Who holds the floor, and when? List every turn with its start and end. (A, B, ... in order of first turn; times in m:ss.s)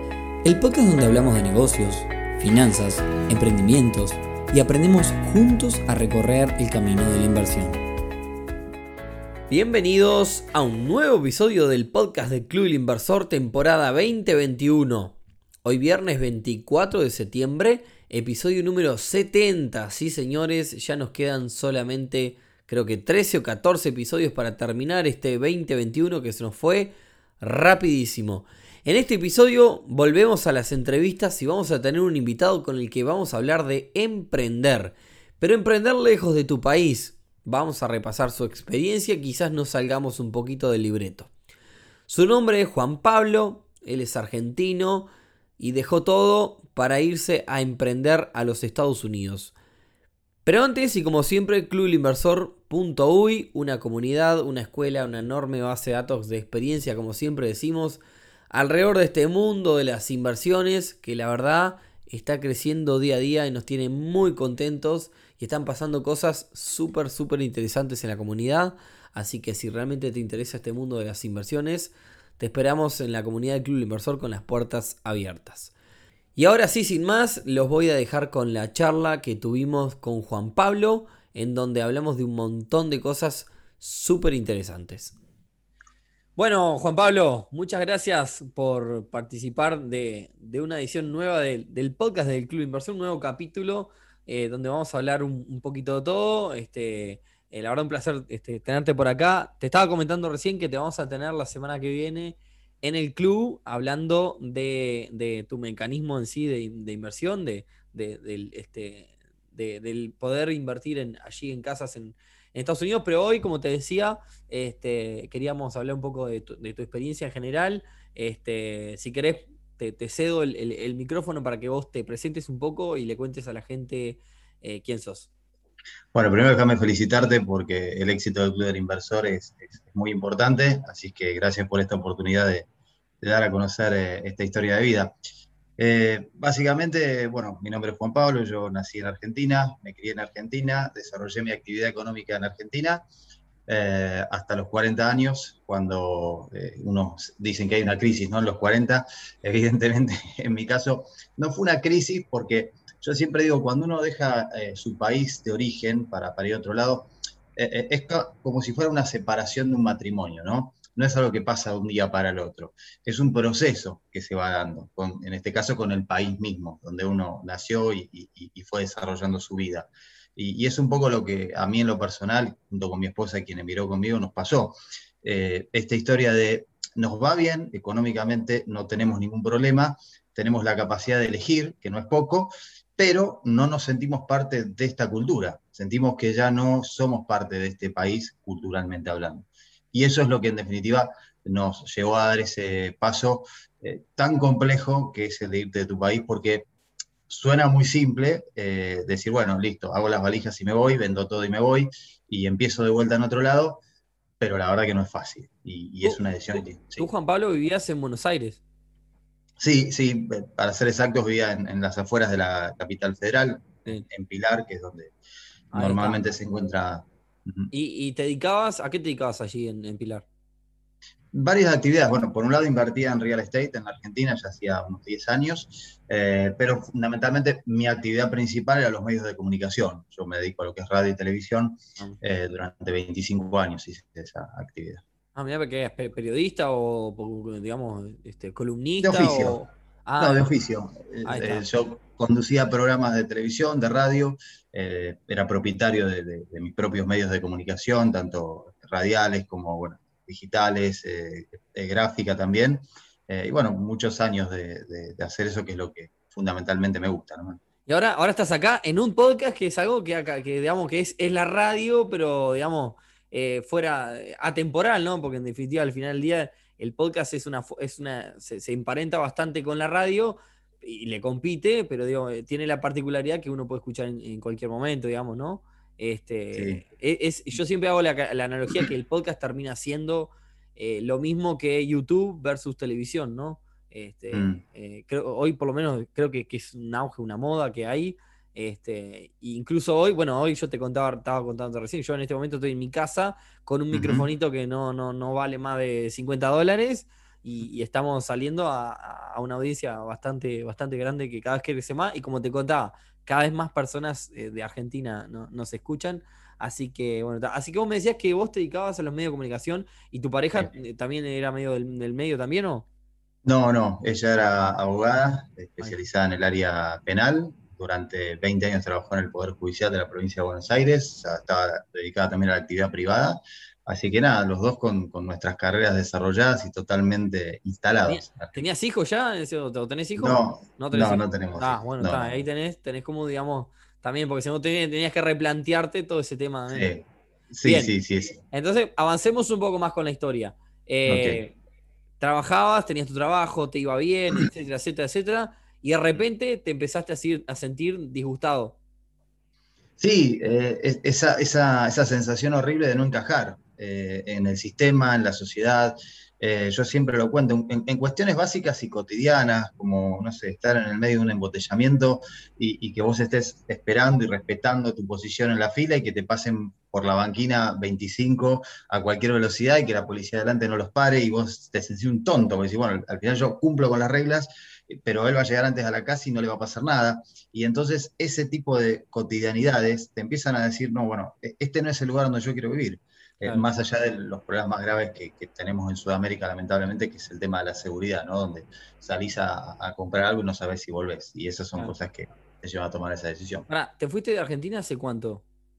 0:00.4-0:07.8 A
0:09.5-0:41.3 A
0:42.1-0:49.5 A
0:50.4-0:58.0 A
0:58.5-1:15.7 A
1:16.4-1:25.1 A
1:26.4-2:05.3 A
2:06.1-2:12.7 B
2:13.2-2:15.1 B
2:15.8-2:23.0 B
2:23.7-3:16.7 B
3:17.3-3:23.8 B
3:24.4-3:27.1 B
3:26.0-3:28.6 A
3:29.6-3:35.1 B
3:35.7-3:36.2 A
3:35.7-3:37.7 B
3:37.7-3:40.2 A
3:41.3-3:55.0 B
3:55.3-4:00.5 A
3:59.0-3:59.6 B
4:00.2-4:17.6 B
4:01.2-4:01.7 A
4:17.9-5:12.9 A
4:36.5-4:36.8 B
4:44.3-4:44.6 B
4:53.9-4:54.2 B
5:13.4-5:28.5 B
5:28.0-5:37.0 A
5:30.2-5:32.4 B
5:36.7-5:38.4 B
5:37.6-5:38.0 A
5:38.5-5:41.6 A
5:41.1-5:41.4 B
5:42.2-5:48.8 A
5:50.0-6:33.6 B
6:23.4-6:23.7 A
6:33.7-6:35.4 A